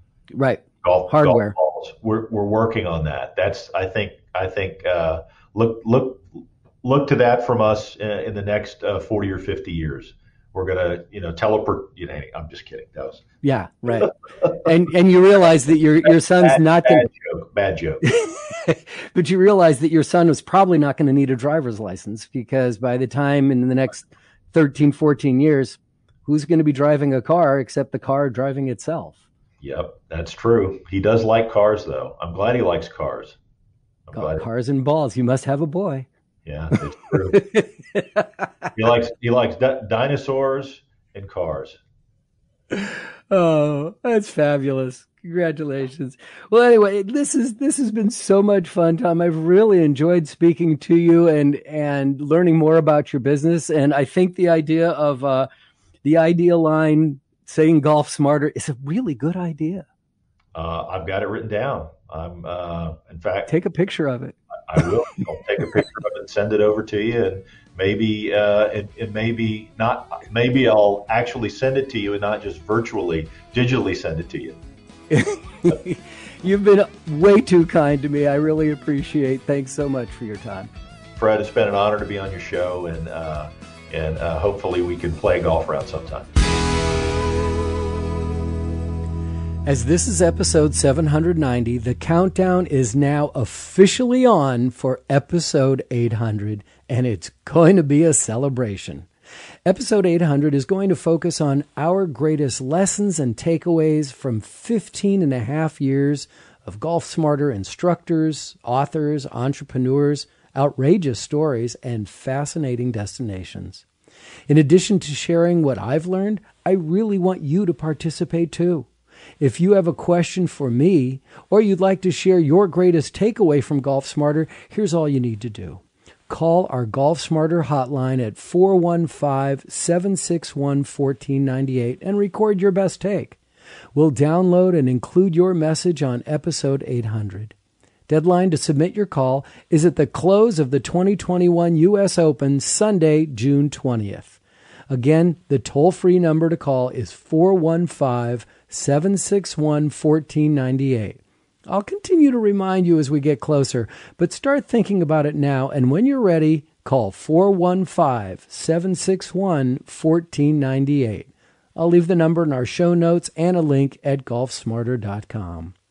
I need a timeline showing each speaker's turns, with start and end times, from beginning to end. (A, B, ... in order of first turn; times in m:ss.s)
0:00.3-0:01.5 A
0:00.8-0:13.2 B
0:13.4-0:17.0 A
0:16.0-0:18.0 B
0:18.0-0:29.2 A
0:29.6-0:33.4 B
0:34.1-0:34.4 B
0:34.1-0:36.1 A
0:36.4-0:37.4 B
0:37.3-0:38.5 A
0:38.7-0:41.8 B
0:42.7-0:55.5 A
0:56.0-0:59.8 A
1:00.5-1:03.5 B
1:03.5-1:04.4 A
1:04.7-1:14.6 B
1:15.1-1:20.7 A
1:21.2-1:26.3 B
1:29.6-1:39.1 A
1:39.6-1:53.8 A
1:54.5-1:58.9 A
1:59.4-2:13.4 A
2:13.9-2:17.5 A
2:18.1-2:24.4 A
2:24.9-2:45.7 A